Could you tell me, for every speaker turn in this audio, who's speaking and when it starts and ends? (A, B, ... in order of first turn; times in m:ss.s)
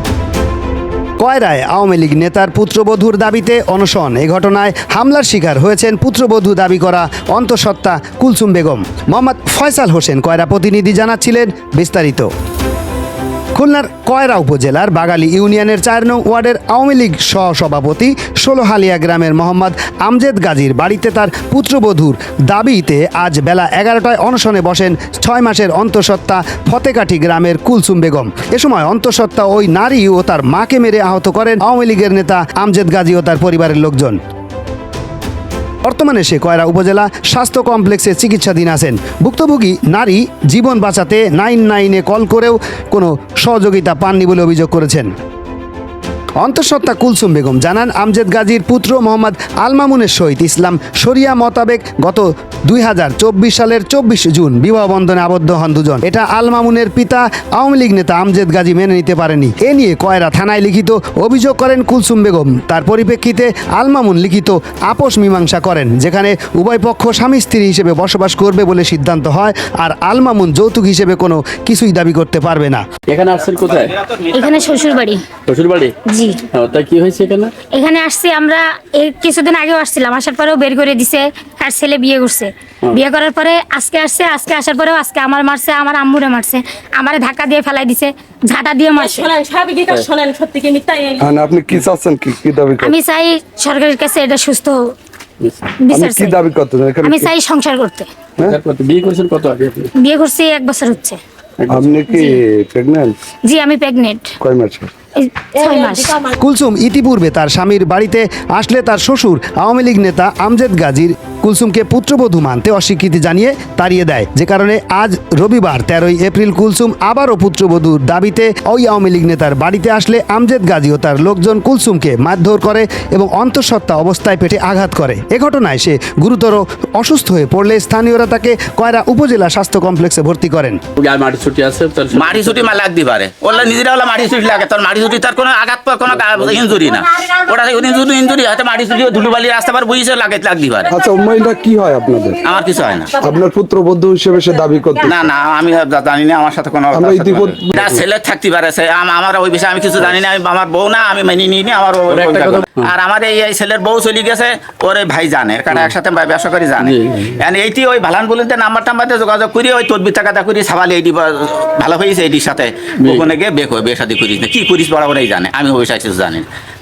0:01.2-0:12.3 A
0:13.5-0:34.2 A
0:35.8-0:45.1 A
0:46.4-1:12.8 A
1:13.1-1:13.9 B
1:13.7-1:14.8 C
1:14.3-1:15.2 D
1:15.5-1:15.9 B
1:16.1-1:16.4 D
1:16.5-1:17.5 B
1:17.7-1:29.3 D
1:29.0-1:31.3 E
1:31.2-1:32.9 F
1:32.8-1:34.9 D
1:35.8-1:36.4 D
1:35.9-1:37.3 F
1:37.0-1:38.1 D
1:38.4-1:39.9 B
1:40.0-1:41.2 D
1:41.6-1:42.0 B
1:41.7-1:43.1 F
1:42.1-1:42.4 D
1:43.4-1:44.3 D
1:44.4-1:44.9 F
1:45.2-1:46.2 D
1:45.6-1:46.4 E
1:46.4-2:10.8 A
2:11.0-2:12.7 B
2:12.1-2:20.9 C
2:20.9-2:22.4 F
2:22.4-2:23.1 C
2:23.2-2:25.1 F
2:25.0-2:46.5 C
2:26.9-2:28.0 F
2:32.1-2:32.9 B
2:36.8-2:37.3 B